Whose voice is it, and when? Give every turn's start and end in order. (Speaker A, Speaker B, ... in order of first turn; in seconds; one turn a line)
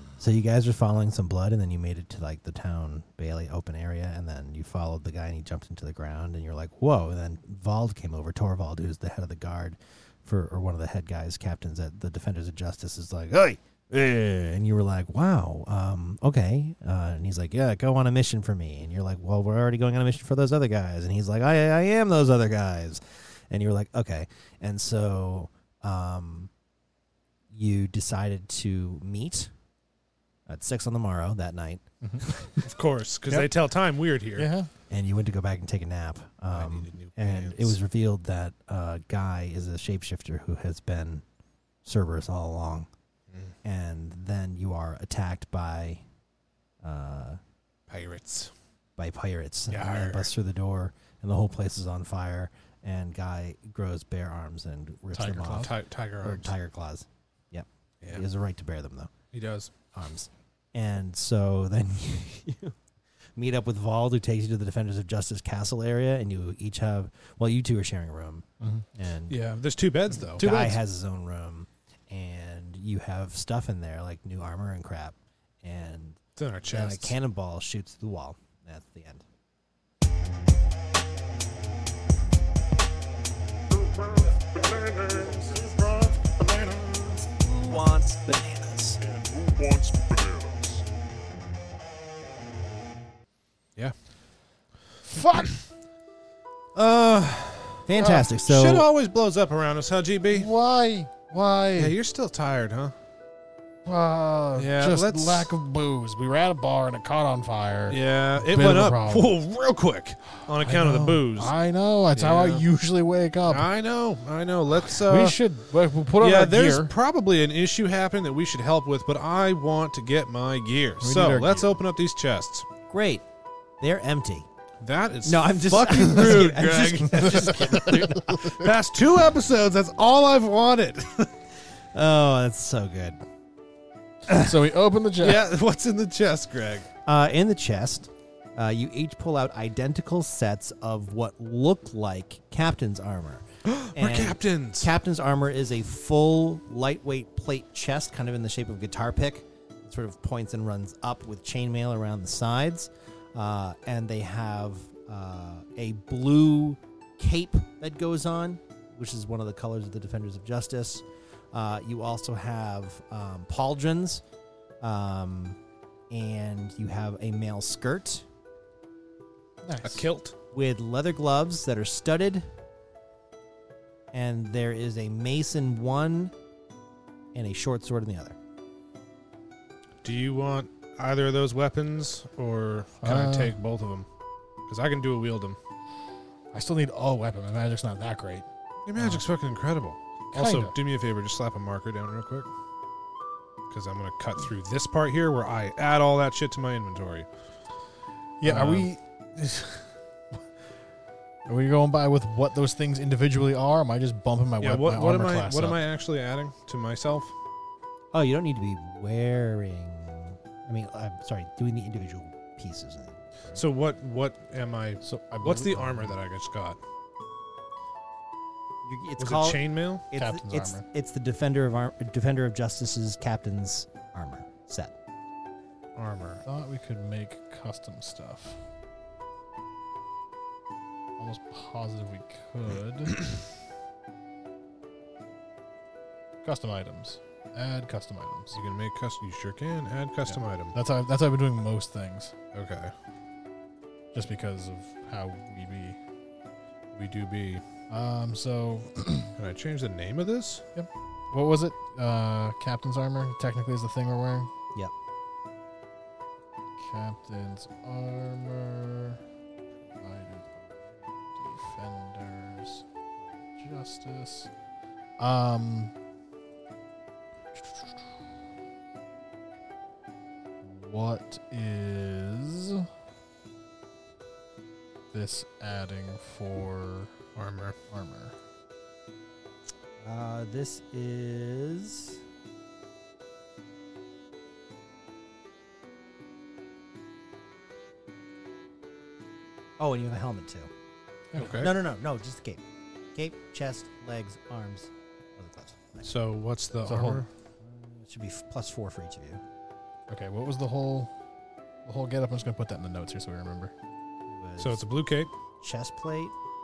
Speaker A: 0.2-26.5
Speaker A: 27.5-29.5
Speaker A: 30.5-32.6
Speaker B: 32.0-32.3
Speaker C: 32.6-34.5
Speaker B: 34.4-34.7
Speaker A: 34.9-41.2
Speaker C: 36.5-37.8
Speaker A: 41.8-42.9
Speaker A: 43.6-46.0
Speaker A: 46.8-47.4
Speaker C: 47.9-48.5
Speaker A: 49.0-59.1
Speaker C: 49.7-50.3
Speaker B: 55.1-55.7
Speaker C: 55.5-56.5
Speaker C: 59.3-59.7
Speaker A: 59.9-62.8
Speaker A: 63.4-69.4
Speaker C: 69.3-70.4
Speaker B: 70.3-70.8
Speaker A: 70.4-79.2
Speaker C: 76.3-77.2
Speaker B: 84.1-87.6
Speaker A: 87.6-89.0
Speaker B: 89.2-89.5
Speaker B: 95.1-95.5
Speaker C: 96.7-97.9
Speaker A: 97.9-98.8
Speaker B: 98.0-98.3
Speaker C: 98.4-100.5
Speaker B: 100.3-101.9
Speaker C: 101.8-102.9
Speaker B: 103.8-109.3
Speaker C: 104.5-105.5
Speaker C: 107.9-111.5
Speaker B: 110.5-113.7
Speaker C: 112.1-112.6
Speaker C: 113.4-115.4
Speaker B: 114.7-116.9
Speaker C: 116.2-122.7
Speaker B: 121.0-121.7
Speaker A: 122.9-123.2
Speaker A: 123.8-124.5
Speaker C: 124.8-131.3
Speaker A: 125.2-128.6
Speaker B: 127.1-128.6
Speaker A: 131.9-133.2
Speaker B: 134.3-135.5
Speaker C: 135.2-136.9
Speaker A: 137.1-164.2
Speaker C: 143.7-144.9
Speaker A: 164.8-165.6
Speaker A: 166.1-168.2
Speaker B: 169.6-170.1
Speaker C: 169.8-170.3
Speaker A: 170.5-172.4
Speaker A: 174.1-176.3
Speaker A: 177.3-178.3
Speaker C: 180.0-184.1
Speaker B: 183.0-183.5
Speaker C: 184.7-185.6
Speaker B: 186.5-188.4
Speaker C: 188.9-192.5
Speaker B: 188.9-189.2
Speaker B: 190.3-190.7
Speaker C: 193.7-197.3
Speaker B: 198.4-199.8
Speaker C: 198.4-198.9
Speaker B: 201.4-205.8
Speaker C: 204.6-207.3
Speaker A: 208.1-213.6
Speaker C: 213.5-216.8
Speaker B: 215.0-216.1
Speaker A: 218.8-224.9
Speaker C: 219.2-220.1
Speaker B: 220.2-220.8
Speaker C: 225.9-226.4
Speaker B: 226.4-228.6
Speaker B: 231.2-233.3
Speaker B: 236.4-238.5
Speaker C: 238.5-240.8
Speaker B: 240.7-242.3
Speaker C: 242.5-242.9
Speaker B: 244.1-246.0
Speaker C: 246.9-247.6
Speaker B: 247.9-249.3
Speaker C: 249.4-250.6
Speaker B: 250.8-254.5
Speaker B: 256.8-259.2
Speaker B: 260.0-260.8
Speaker B: 261.3-262.8
Speaker B: 263.5-264.5
Speaker B: 265.2-265.9
Speaker B: 267.6-267.9
Speaker B: 270.6-272.9
Speaker B: 275.1-277.1
Speaker C: 277.3-277.8
Speaker B: 277.9-278.3
Speaker A: 280.0-282.2
Speaker A: 289.8-290.7
Speaker B: 291.3-291.6
Speaker C: 291.4-291.7
Speaker A: 291.6-292.6
Speaker A: 293.1-296.1
Speaker C: 296.0-297.3
Speaker B: 296.9-297.2
Speaker A: 297.6-299.4
Speaker B: 300.1-301.1
Speaker B: 301.9-303.7
Speaker A: 304.3-304.8
Speaker C: 304.6-305.3
Speaker A: 305.6-306.3